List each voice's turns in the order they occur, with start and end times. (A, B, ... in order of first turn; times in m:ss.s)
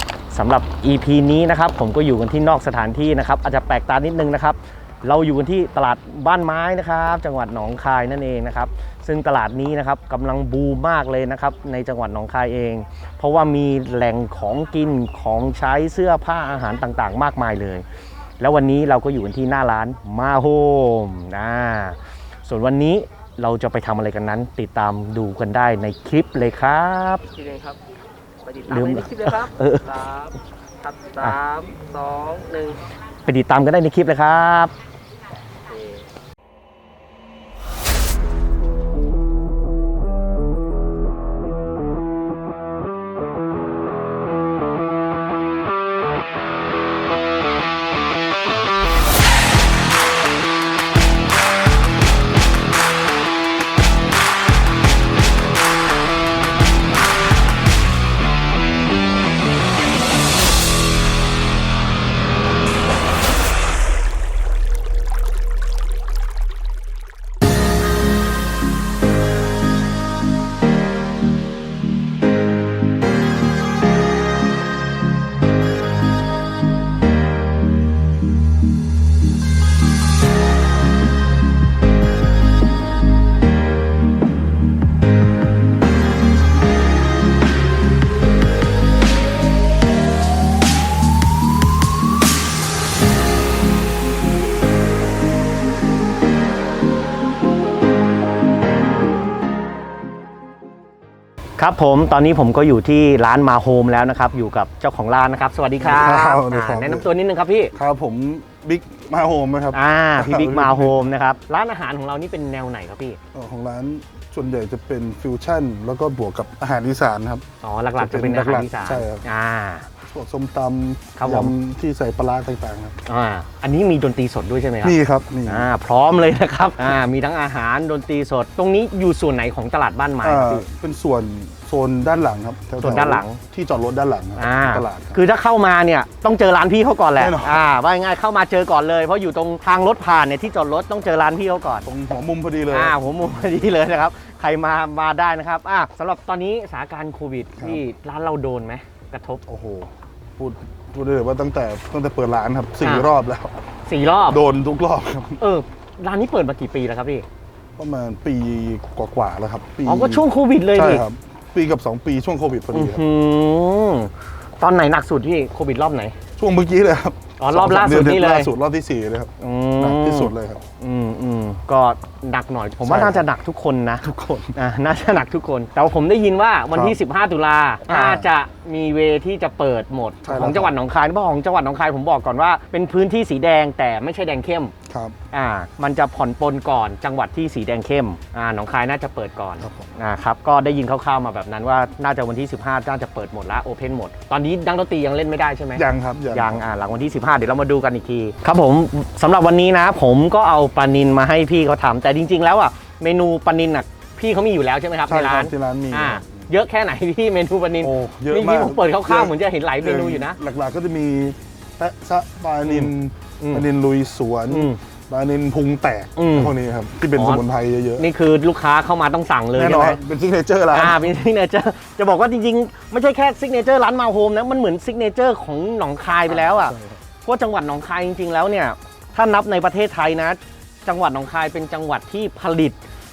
0:00.3-0:17.8 A
0:18.4-0:27.3 A
0:27.3-0:27.8 B
0:28.4-0:32.8 B
0:28.7-0:30.0 A
0:33.2-0:34.7 A
1:41.6-1:47.7 A
1:45.8-1:47.1 C
1:47.7-1:51.1 C
1:49.7-1:53.2 A
1:53.3-1:57.4 C
1:57.6-1:59.9 A
1:58.0-1:59.2 C
2:00.0-2:03.0 C
2:01.2-2:01.5 A
2:03.0-2:10.6 A
2:04.8-2:05.7 C
2:10.2-2:15.2 C
2:12.8-2:13.4 A
2:14.4-2:21.9 A
2:17.2-2:17.6 C
2:21.8-2:23.0 C
2:22.7-2:29.4 A
2:27.6-2:27.8 C
2:29.5-2:33.5 C
2:32.8-2:33.1 A
2:33.8-2:34.4 A
2:34.3-2:35.4 C
2:35.4-2:37.2 A
2:37.8-2:43.0 C
2:39.8-2:41.0 A
2:42.7-2:46.2 A
2:46.4-2:50.6 C
2:47.4-2:48.5 A
2:49.4-3:04.7 A
2:52.8-2:53.2 C
2:54.0-2:54.6 C
2:57.9-2:58.3 C
3:00.2-3:00.7 C
3:04.9-3:05.2 C
3:05.3-3:30.4 A
3:09.6-3:09.9 C
3:15.7-3:16.6 C
3:25.1-3:26.5 C
3:27.8-3:38.0 C
3:32.6-3:33.6 A
3:34.5-3:34.8 A
3:36.2-3:36.5 A
3:37.2-3:37.4 A
3:38.0-3:40.0 A
3:39.5-3:41.0 C
3:40.7-3:52.8 A
3:46.2-3:47.0 C